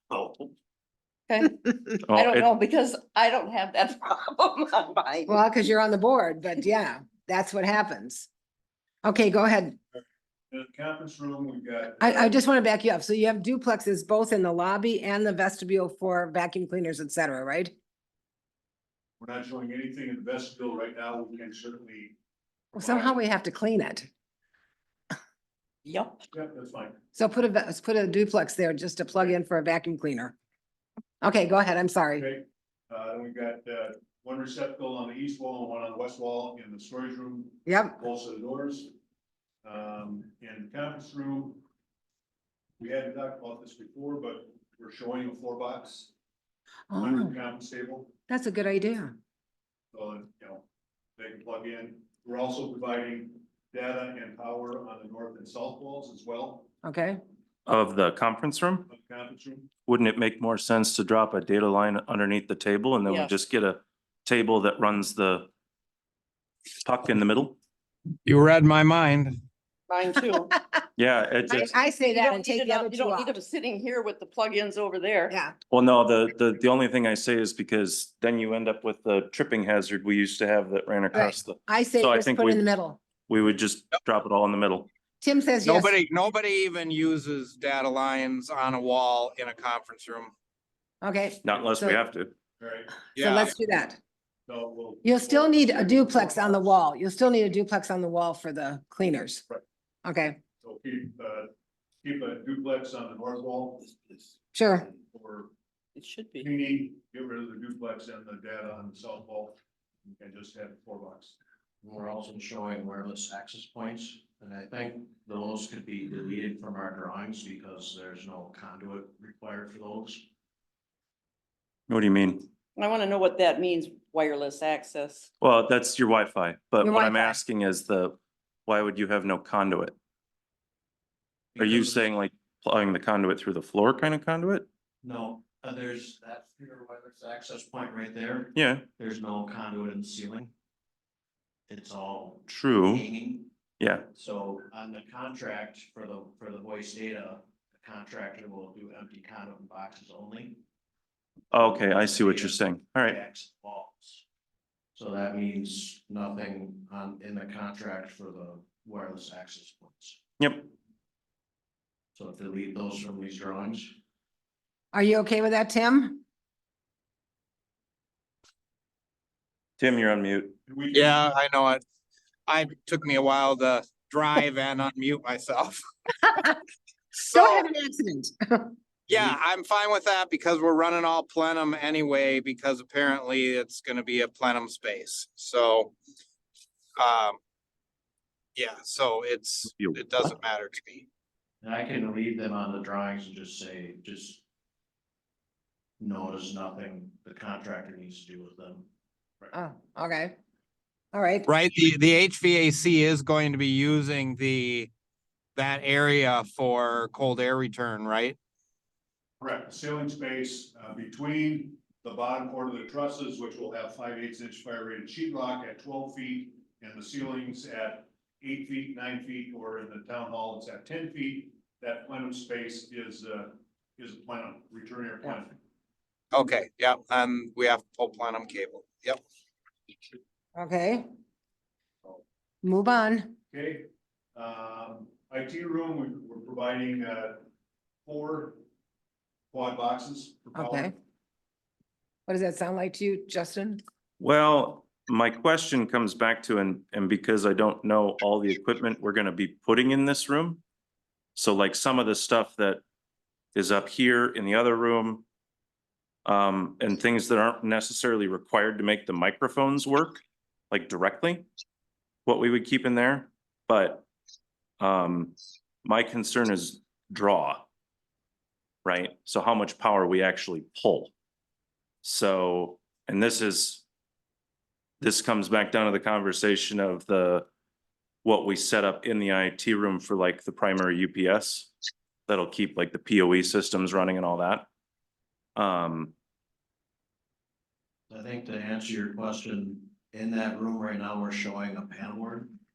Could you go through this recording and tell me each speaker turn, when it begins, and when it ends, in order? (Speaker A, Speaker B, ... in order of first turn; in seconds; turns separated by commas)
Speaker A: 0.1-0.5, Speaker B: 1.3-5.3, Speaker A: 2.1-2.5, Speaker C: 5.3-8.3, Speaker C: 9.0-9.8, Speaker D: 10.5-12.3, Speaker C: 12.0-17.7, Speaker D: 19.2-22.2, Speaker C: 22.7-24.1, Speaker D: 22.8-23.2, Speaker B: 25.8-26.2, Speaker D: 26.3-27.0, Speaker C: 27.1-30.3, Speaker C: 31.2-32.3, Speaker D: 32.2-38.9, Speaker C: 37.6-38.0, Speaker D: 39.6-41.6, Speaker D: 42.8-46.1, Speaker C: 46.9-47.3, Speaker D: 46.9-48.1, Speaker C: 48.3-49.1, Speaker D: 49.9-50.6, Speaker D: 51.2-56.7, Speaker C: 56.8-57.2, Speaker A: 57.6-58.9, Speaker D: 58.9-59.7, Speaker A: 59.8-65.5, Speaker B: 63.0-63.3, Speaker A: 66.8-67.6, Speaker E: 68.2-69.4, Speaker B: 69.9-70.5, Speaker A: 71.0-71.7, Speaker B: 71.5-75.3, Speaker C: 71.7-73.3, Speaker A: 75.7-82.7, Speaker C: 81.1-83.0, Speaker A: 83.3-84.9, Speaker C: 85.2-85.9, Speaker E: 85.6-90.3, Speaker C: 91.0-92.0, Speaker A: 91.4-92.3, Speaker D: 92.6-92.9, Speaker E: 93.1-93.5, Speaker C: 93.2-94.0, Speaker D: 94.5-96.7, Speaker C: 95.0-99.4, Speaker C: 100.0-100.4, Speaker D: 100.6-101.5, Speaker D: 102.0-104.3, Speaker C: 104.5-104.8, Speaker D: 104.9-105.5, Speaker B: 106.0-106.5, Speaker D: 106.4-109.6, Speaker D: 110.2-111.4, Speaker F: 111.8-120.2, Speaker A: 121.9-122.5, Speaker B: 122.8-125.3, Speaker A: 125.4-129.9, Speaker C: 126.8-127.4, Speaker F: 131.6-132.1, Speaker A: 131.6-134.7, Speaker F: 135.0-140.5, Speaker A: 138.5-138.8, Speaker F: 141.7-143.5, Speaker A: 142.5-143.1, Speaker A: 143.8-144.1, Speaker F: 144.1-150.6, Speaker A: 151.5-153.2, Speaker F: 151.5-154.2, Speaker F: 154.9-160.2, Speaker A: 160.4-160.7, Speaker F: 162.1-163.9, Speaker C: 164.9-166.2, Speaker A: 169.8-170.6, Speaker D: 170.7-171.2, Speaker E: 170.9-171.8, Speaker E: 172.5-175.8, Speaker C: 177.2-178.7, Speaker E: 177.2-177.6, Speaker E: 179.1-185.9, Speaker E: 187.0-187.4, Speaker E: 188.6-191.1, Speaker A: 189.7-190.3, Speaker F: 191.6-194.4, Speaker F: 196.0-198.9, Speaker C: 199.5-200.3, Speaker C: 201.1-201.5, Speaker E: 201.4-204.9, Speaker E: 205.6-208.4, Speaker D: 209.4-225.5, Speaker E: 226.3-229.2, Speaker C: 230.6-231.0, Speaker C: 232.6-233.3, Speaker D: 233.5-237.4, Speaker D: 238.1-238.6, Speaker D: 239.5-240.9, Speaker C: 240.6-240.9, Speaker C: 242.3-243.8, Speaker A: 244.2-250.6, Speaker A: 251.3-252.8, Speaker A: 253.5-255.2, Speaker A: 256.2-261.5, Speaker A: 262.2-264.1, Speaker A: 264.8-267.7, Speaker A: 268.8-271.1, Speaker A: 272.0-273.8, Speaker A: 275.0-277.5, Speaker A: 278.2-281.7, Speaker A: 282.3-284.7, Speaker A: 285.6-286.1, Speaker F: 288.1-292.5